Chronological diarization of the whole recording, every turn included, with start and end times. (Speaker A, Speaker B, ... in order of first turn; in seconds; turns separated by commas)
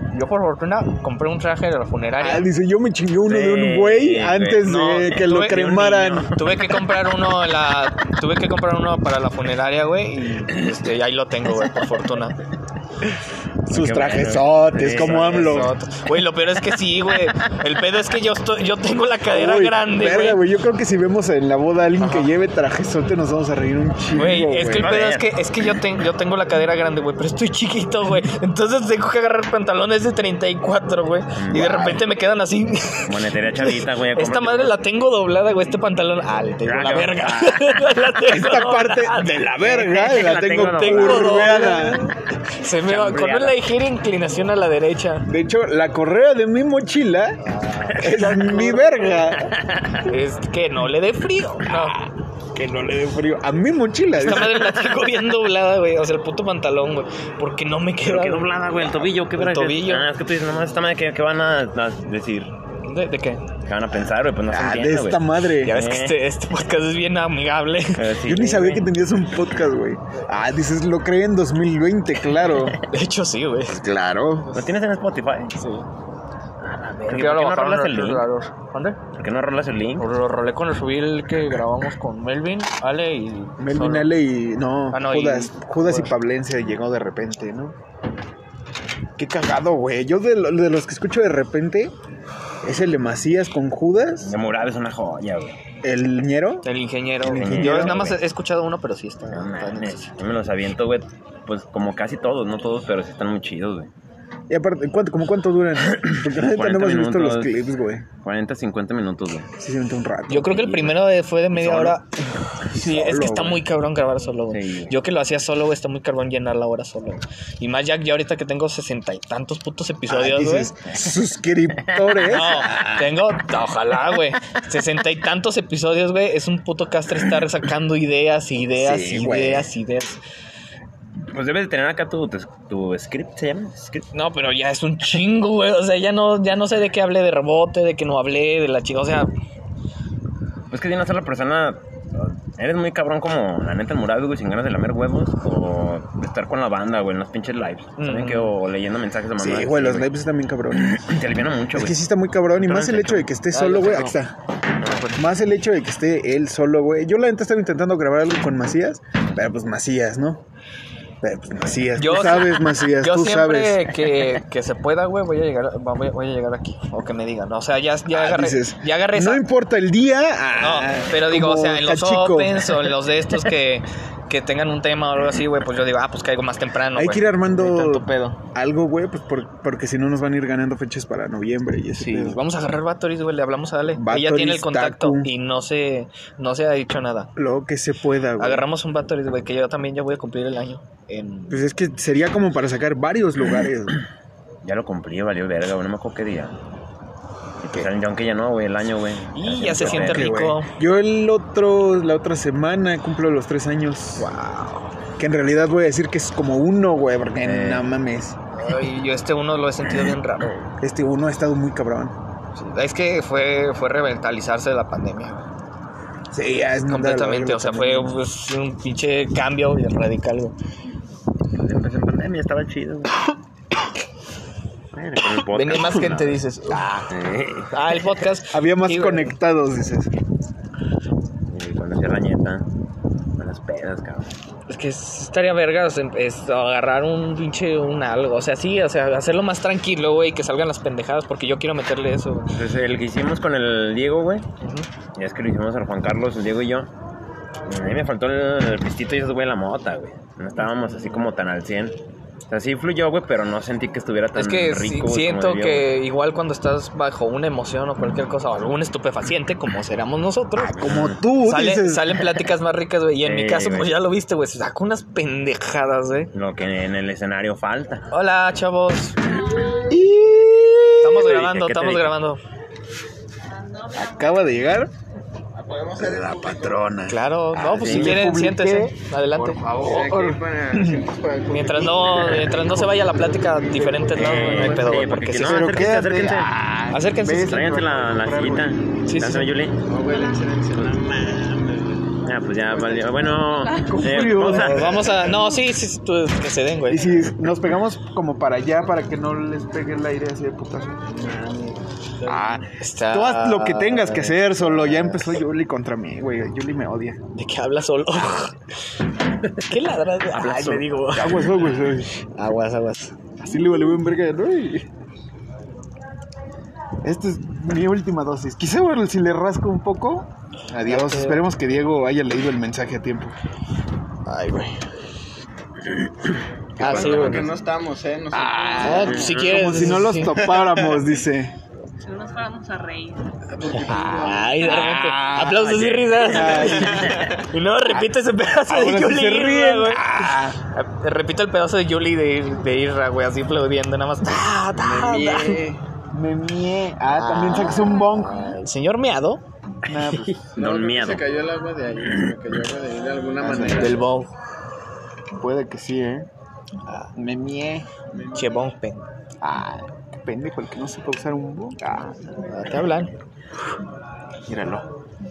Speaker A: 0.1-2.5, Speaker B: 2.2-6.3, Speaker C: 3.2-6.7, Speaker A: 5.0-12.3, Speaker B: 13.7-15.7, Speaker C: 13.7-15.7, Speaker A: 15.0-20.4, Speaker B: 19.3-24.9, Speaker A: 22.0-22.3, Speaker A: 24.1-45.3, Speaker C: 24.8-25.3, Speaker C: 31.4-32.0, Speaker B: 31.5-32.0, Speaker C: 33.1-34.7, Speaker C: 36.6-37.9, Speaker B: 38.2-42.1, Speaker C: 39.7-41.7, Speaker C: 42.8-43.6, Speaker B: 45.3-47.4, Speaker A: 47.4-48.9, Speaker B: 47.9-49.5, Speaker C: 49.4-50.1, Speaker A: 50.0-52.0, Speaker B: 52.5-54.8, Speaker A: 54.2-58.5, Speaker C: 58.0-62.5, Speaker A: 59.3-60.1, Speaker A: 62.9-63.4, Speaker C: 63.6-66.2, Speaker B: 64.5-65.8, Speaker A: 65.6-68.0, Speaker C: 68.0-68.9, Speaker B: 68.2-72.8, Speaker A: 72.9-73.8, Speaker B: 73.7-74.6, Speaker C: 74.5-75.5, Speaker A: 75.6-75.8, Speaker C: 76.6-78.2, Speaker A: 77.1-79.0, Speaker C: 79.1-80.1, Speaker A: 80.0-84.1, Speaker B: 83.6-87.8, Speaker A: 84.9-86.1, Speaker B: 89.2-91.9, Speaker B: 92.6-94.4, Speaker C: 94.2-95.6, Speaker B: 95.8-96.7, Speaker A: 96.6-100.1, Speaker B: 97.2-98.1, Speaker C: 97.3-98.2, Speaker C: 99.3-103.9, Speaker B: 104.5-108.0, Speaker C: 106.5-107.5, Speaker C: 108.2-109.5, Speaker B: 109.6-110.9, Speaker A: 110.3-112.1, Speaker C: 111.5-112.0, Speaker A: 112.6-120.7, Speaker B: 112.7-113.6, Speaker C: 114.5-114.9, Speaker B: 120.1-123.0, Speaker A: 122.3-130.2, Speaker B: 128.8-129.7, Speaker C: 131.3-134.1, Speaker A: 134.1-139.3, Speaker C: 140.7-150.1, Speaker A: 148.0-148.5, Speaker B: 149.4-151.0, Speaker C: 150.7-152.0, Speaker B: 151.7-154.3, Speaker C: 152.6-153.3, Speaker A: 153.5-154.2, Speaker A: 154.8-155.2, Speaker B: 155.1-160.4, Speaker B: 161.2-164.0, Speaker A: 161.9-169.4, Speaker B: 168.1-172.9, Speaker A: 170.5-178.4, Speaker B: 176.9-182.4, Speaker A: 182.0-187.3, Speaker B: 183.9-185.3, Speaker B: 187.3-188.7, Speaker A: 188.4-191.6, Speaker B: 191.5-194.0, Speaker C: 194.6-196.6, Speaker C: 197.6-200.3, Speaker A: 199.3-200.7, Speaker B: 199.7-204.3, Speaker A: 204.2-204.9, Speaker B: 205.2-208.4, Speaker C: 207.4-207.9, Speaker A: 208.6-210.7, Speaker B: 210.8-212.2, Speaker A: 212.6-215.5, Speaker B: 216.3-218.2, Speaker A: 216.8-220.5, Speaker C: 221.5-223.2, Speaker C: 224.9-226.4, Speaker A: 225.5-227.1, Speaker C: 227.1-227.7, Speaker A: 227.7-229.3, Speaker B: 228.5-230.1, Speaker C: 231.5-232.7, Speaker C: 233.4-234.3, Speaker A: 234.7-242.6, Speaker C: 242.5-244.4, Speaker A: 244.6-244.9, Speaker C: 245.2-246.9, Speaker C: 247.7-251.9, Speaker C: 252.5-255.9, Speaker A: 254.3-260.8, Speaker B: 260.6-262.5, Speaker C: 260.7-261.2, Speaker A: 261.4-266.3, Speaker C: 263.2-263.9, Speaker C: 266.3-268.1, Speaker A: 268.1-269.2, Speaker B: 269.9-271.3, Speaker A: 271.0-272.4, Speaker C: 271.2-272.1, Speaker D: 273.5-274.5, Speaker B: 273.9-274.9, Speaker E: 275.5-276.9, Speaker B: 276.0-278.9, Speaker A: 277.1-279.6, Speaker C: 277.6-278.2, Speaker E: 279.4-284.7, Speaker B: 279.6-281.1, Speaker A: 281.5-285.6, Speaker C: 284.1-286.5, Speaker B: 284.3-284.6, Speaker B: 285.3-288.7, Speaker A: 286.9-287.6, Speaker C: 287.3-289.8, Speaker A: 289.1-289.5, Speaker E: 289.8-293.4, Speaker C: 292.2-295.1, Speaker D: 293.6-294.3, Speaker B: 293.7-295.4, Speaker A: 294.4-297.2, Speaker B: 296.9-301.0, Speaker E: 301.0-302.6, Speaker B: 302.2-307.2, Speaker A: 302.8-305.4, Speaker A: 307.3-308.6, Speaker A: 309.4-311.5, Speaker B: 310.3-312.1, Speaker A: 312.1-313.1, Speaker B: 313.4-314.9, Speaker B: 317.0-323.3, Speaker A: 320.8-321.4, Speaker A: 324.2-324.8, Speaker A: 326.8-327.4, Speaker C: 326.8-327.5, Speaker E: 326.8-329.5, Speaker B: 328.3-331.5, Speaker A: 328.8-330.4, Speaker E: 330.3-331.0, Speaker D: 332.0-333.3, Speaker E: 333.5-334.6, Speaker A: 333.9-345.6, Speaker B: 334.6-337.3, Speaker C: 335.6-336.9, Speaker E: 336.7-337.2, Speaker B: 338.7-340.6, Speaker E: 344.7-345.8, Speaker B: 346.1-348.5, Speaker A: 347.1-349.4, Speaker B: 349.8-350.4, Speaker C: 350.2-351.3, Speaker E: 350.5-354.0, Speaker B: 353.4-353.9, Speaker A: 353.7-354.3, Speaker B: 355.4-356.3, Speaker B: 357.1-357.9, Speaker E: 358.1-358.5, Speaker A: 358.3-359.1, Speaker B: 359.4-362.3, Speaker A: 362.5-363.1, Speaker C: 364.5-364.8